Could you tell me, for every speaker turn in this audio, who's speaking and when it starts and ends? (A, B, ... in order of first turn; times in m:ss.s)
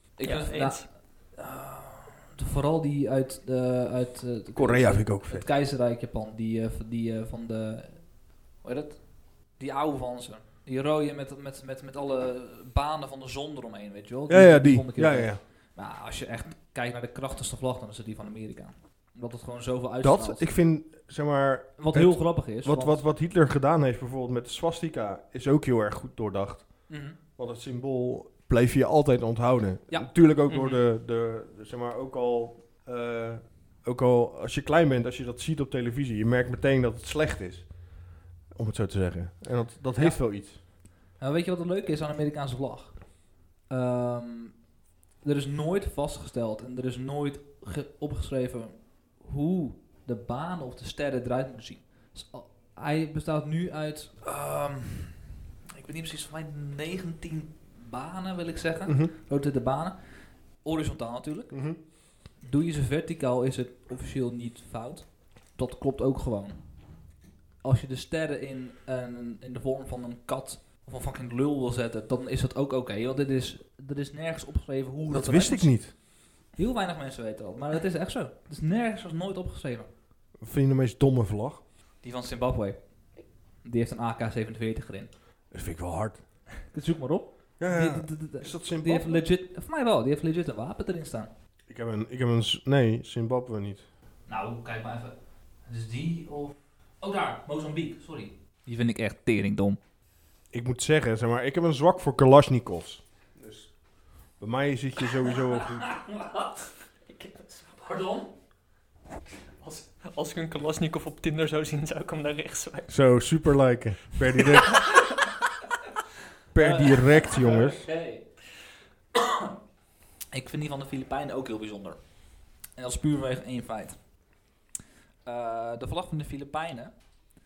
0:00.2-0:20.5 A
0:00.2-0:00.9 B
0:04.5-0:05.5 C
0:14.3-0:15.4 C
0:20.0-0:40.6 C
0:21.8-0:23.0 A
0:26.9-0:27.2 A
0:30.5-0:30.8 B
0:40.0-0:40.2 A
0:41.2-0:44.6 A
0:45.2-1:06.6 A
0:58.9-0:59.1 C
1:01.5-1:01.8 C
1:07.6-1:16.0 A
1:15.1-1:15.9 C
1:16.5-1:19.9 A
1:20.4-1:21.6 C
1:22.0-1:22.8 A
1:23.6-1:25.1 A
1:25.5-1:26.2 C
1:26.7-1:31.3 A
1:27.6-1:29.2 C
1:31.7-1:33.8 C
1:34.3-1:39.8 A
1:40.5-1:43.7 C
1:44.3-1:46.0 C
1:45.9-1:46.7 A
1:47.1-1:47.8 B
1:47.8-1:48.3 A
1:49.6-1:52.9 B
1:52.9-1:55.0 C
1:56.5-1:57.9 C
1:56.6-1:58.4 A
2:00.3-2:04.1 A
2:05.2-2:07.1 A